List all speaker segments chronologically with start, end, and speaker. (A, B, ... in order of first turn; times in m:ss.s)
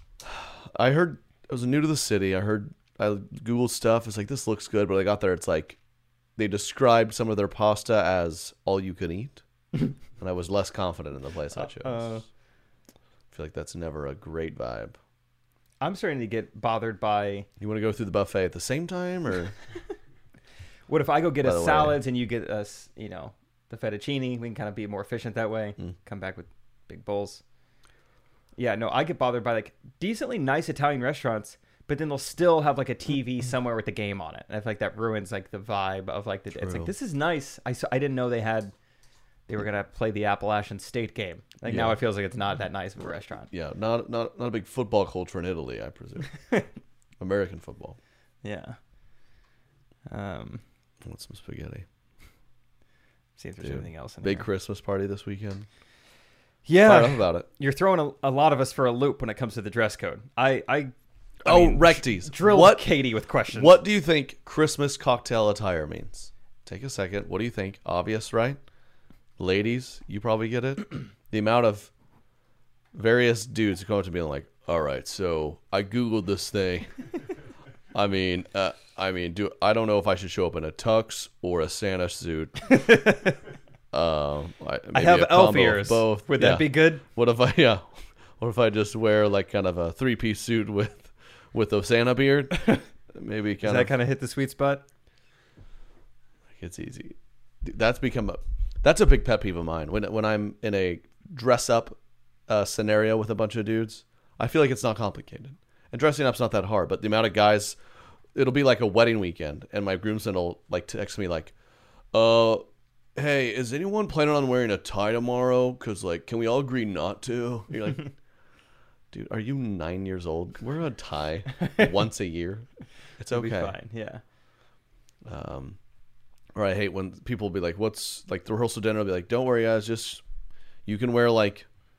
0:00.2-0:05.8 A
0:06.4-0:09.4 A
0:10.2-0:12.1 A
0:11.5-0:12.2 B
0:13.3-0:15.0 A
0:15.8-0:17.5 B
0:17.6-0:19.5 A
0:20.9-0:27.4 B
0:21.4-0:22.0 A
0:28.6-0:38.7 B
0:36.5-0:36.9 A
0:39.5-0:43.5 B
0:41.7-0:42.0 A
0:43.5-0:46.3 A
0:47.2-0:48.0 A
0:48.4-0:48.8 B
0:50.1-0:50.6 B
0:51.0-0:51.8 A
0:53.4-0:54.5 B
0:53.6-0:55.7 A
0:56.6-1:00.9 B
0:56.8-0:57.4 A
1:01.4-1:02.8 A
1:01.4-1:03.8 B
1:03.5-1:08.6 A
1:09.4-1:11.9 A
1:12.9-1:16.9 A
1:17.9-1:22.6 A
1:22.6-1:23.4 B
1:23.9-1:27.9 A
1:24.9-1:27.0 B
1:28.4-1:33.9 A
1:33.6-1:34.8 B
1:36.6-1:42.0 A
1:42.5-1:47.8 A
1:48.3-1:51.5 A
1:52.1-1:52.6 A
1:53.2-1:58.1 A
1:59.1-2:02.6 A
2:03.2-2:03.7 A
2:03.3-2:04.2 B
2:05.2-2:05.8 A
2:06.5-2:10.2 A
2:10.8-2:11.7 A